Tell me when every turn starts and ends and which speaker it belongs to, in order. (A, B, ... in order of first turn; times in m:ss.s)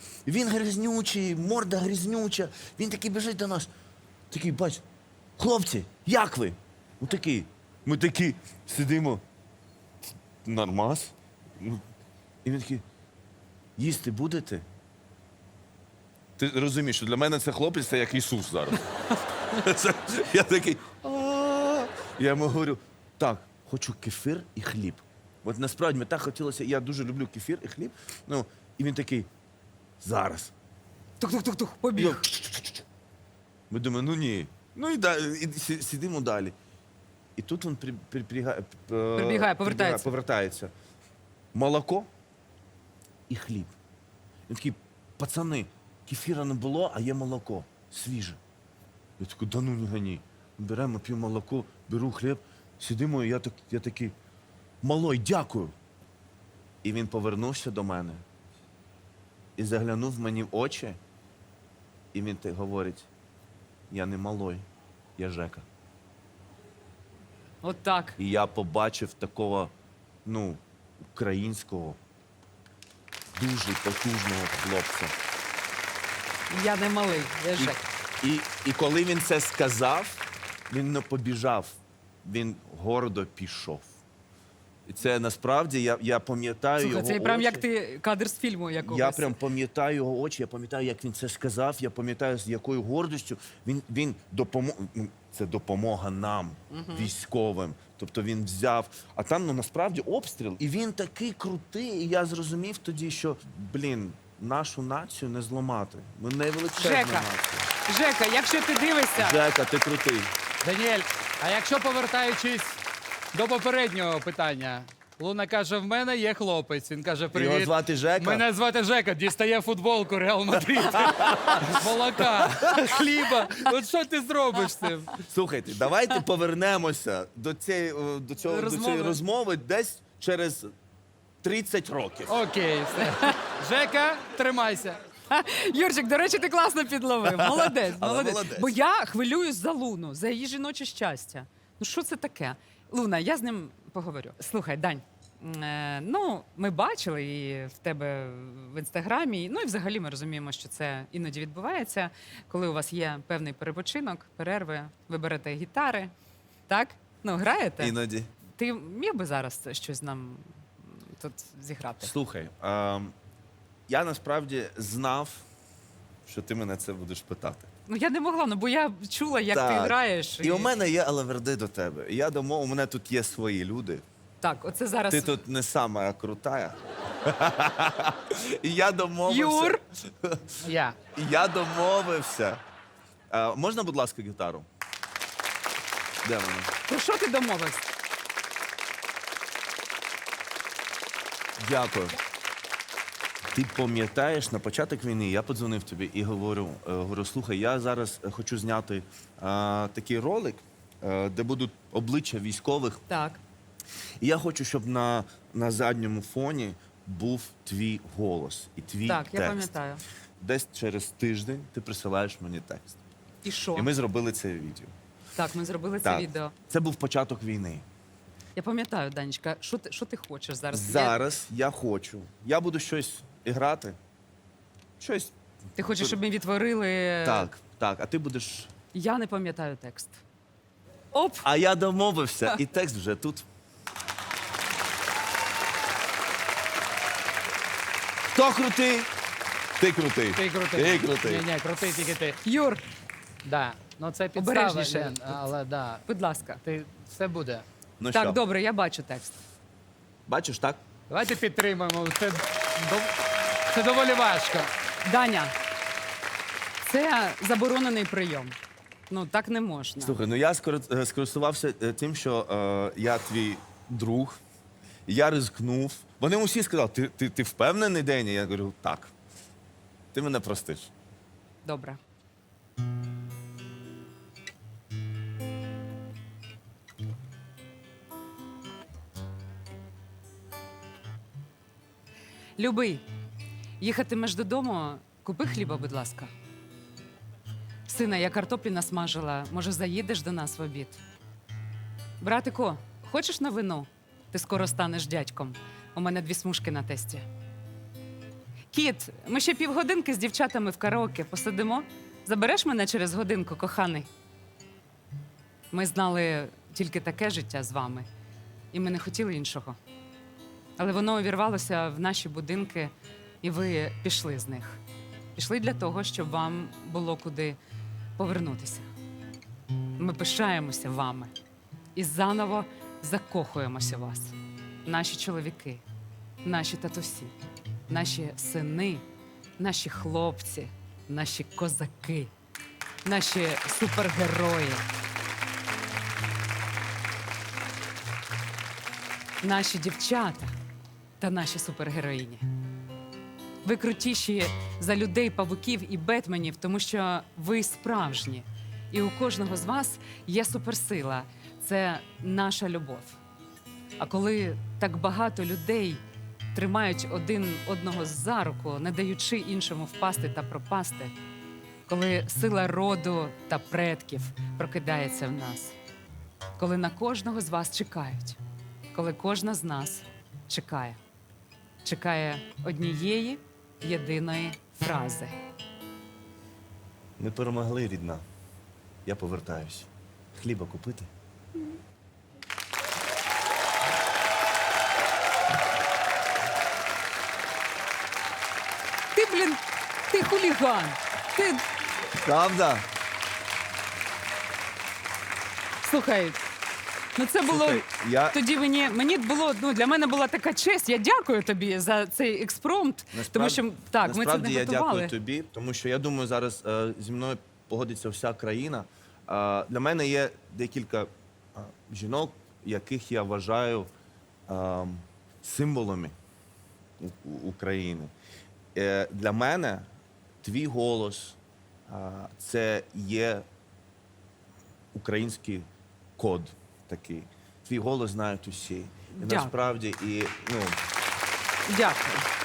0:00.2-0:03.7 A
0:04.3-0:04.8 A
0:05.4-0:09.2 A
0:10.4-0:11.8 A
0:12.4-0:12.8 A
0:13.8-0:14.6 A
0:16.4-0:18.8 A
0:19.5-0:29.3 A
0:30.0-0:30.5 A
0:31.2-0:32.2 B
0:32.0-0:32.8 A
0:33.7-0:36.5 A
0:37.4-0:40.7 A
0:39.2-0:40.1 B
0:41.5-0:42.1 A
0:43.3-0:43.8 A
0:44.5-0:48.4 A
0:49.2-0:54.1 A
0:54.8-0:55.7 A
0:56.8-0:58.2 A
0:59.6-1:01.0 A
1:02.1-1:03.1 A
1:03.9-1:04.6 A
1:05.2-1:05.7 A
1:07.6-1:08.2 B
1:08.2-1:09.7 A
1:10.2-1:12.0 A
1:13.3-1:15.1 A
1:16.5-1:17.8 B
1:17.6-1:23.9 A
1:24.9-1:27.6 A
1:26.8-1:29.4 B
1:28.8-1:47.7 A
1:36.7-1:37.1 B
1:46.8-1:47.3 B
1:47.9-1:49.4 B
1:49.2-1:50.3 A
1:50.6-1:52.8 C
1:53.3-2:05.1 C
1:57.3-1:58.4 A
2:00.8-2:01.9 A
2:02.4-2:02.8 A
2:05.2-2:10.7 A
2:08.5-2:09.2 B
2:11.4-2:12.4 A
2:12.3-2:15.0 C
2:13.0-2:13.4 B
2:15.3-2:36.1 B
2:17.3-2:18.7 A
2:36.7-2:37.9 B
2:37.8-2:38.3 A
2:38.5-2:42.1 B
2:42.0-2:43.1 A
2:43.9-2:45.4 A
2:46.3-2:47.7 A
2:47.9-2:50.8 B
2:49.5-2:54.0 A
2:54.4-2:55.4 B
2:55.1-3:00.6 A
2:59.3-2:59.8 B
3:00.6-3:01.0 C
3:01.1-3:02.6 A
3:03.3-3:04.7 A
3:06.2-3:06.7 A
3:06.9-3:07.9 B
3:11.6-3:12.2 A
3:13.5-3:23.0 A
3:23.1-3:23.4 B
3:24.2-3:29.7 A
3:29.0-3:30.0 B
3:30.4-3:33.0 A
3:33.4-3:33.9 B
3:33.7-3:34.9 A
3:35.3-3:36.5 B
3:36.0-3:37.8 A
3:38.6-3:41.2 B
3:40.7-3:44.0 A
3:45.0-3:45.3 A
3:45.8-3:47.5 B
3:45.9-3:46.2 A
3:47.2-3:48.7 A
3:48.9-3:50.2 B
3:51.1-3:51.5 B
3:51.4-3:53.4 A
3:58.3-3:59.1 A
3:59.8-4:01.4 A
4:00.3-4:02.4 C
4:02.4-4:02.8 B
4:03.4-4:06.0 C
4:04.3-4:05.3 B
4:06.1-4:06.6 B
4:06.6-4:07.6 C
4:08.0-4:08.4 A
4:08.1-4:09.4 B
4:10.3-4:10.8 A
4:11.1-4:13.2 C
4:13.7-4:14.7 C
4:15.0-4:15.5 B
4:16.8-4:18.6 B
4:19.1-4:20.2 B
4:20.0-4:24.4 A
4:25.1-4:29.1 A
4:30.1-4:30.9 A
4:31.6-4:32.0 B
4:42.6-4:43.0 B
4:43.8-4:46.3 B
4:47.9-4:51.0 B
4:52.2-4:57.3 B
4:58.7-5:04.1 B
5:05.7-5:08.1 B
5:08.7-5:09.8 B
5:10.8-5:14.8 B
5:15.3-5:17.6 B
5:18.2-5:18.9 B
5:20.0-5:21.3 B
5:21.9-5:25.8 B
5:26.4-5:27.3 B
5:27.9-5:29.0 B
5:29.6-5:32.3 B
5:33.0-5:34.8 B
5:39.4-5:40.6 B
5:41.2-5:42.5 B
5:43.6-5:53.2 B
5:54.0-5:56.0 B
5:56.5-6:01.1 B
6:01.9-6:05.7 B
6:06.6-6:08.4 B
6:08.9-6:11.0 B
6:11.8-6:15.4 B
6:17.2-6:18.2 A
6:19.0-6:21.1 A
6:29.1-6:31.6 B
6:32.1-6:32.8 A
6:35.8-6:36.4 B
6:37.2-6:45.1 B
6:37.4-6:38.4 A
6:43.1-6:53.9 A
6:54.5-6:56.2 A
6:57.0-6:58.1 A
6:58.7-6:59.9 A
7:00.4-7:03.4 A
7:04.9-7:05.6 A
7:06.2-7:10.8 A
7:09.1-7:09.5 B
7:11.7-7:12.3 B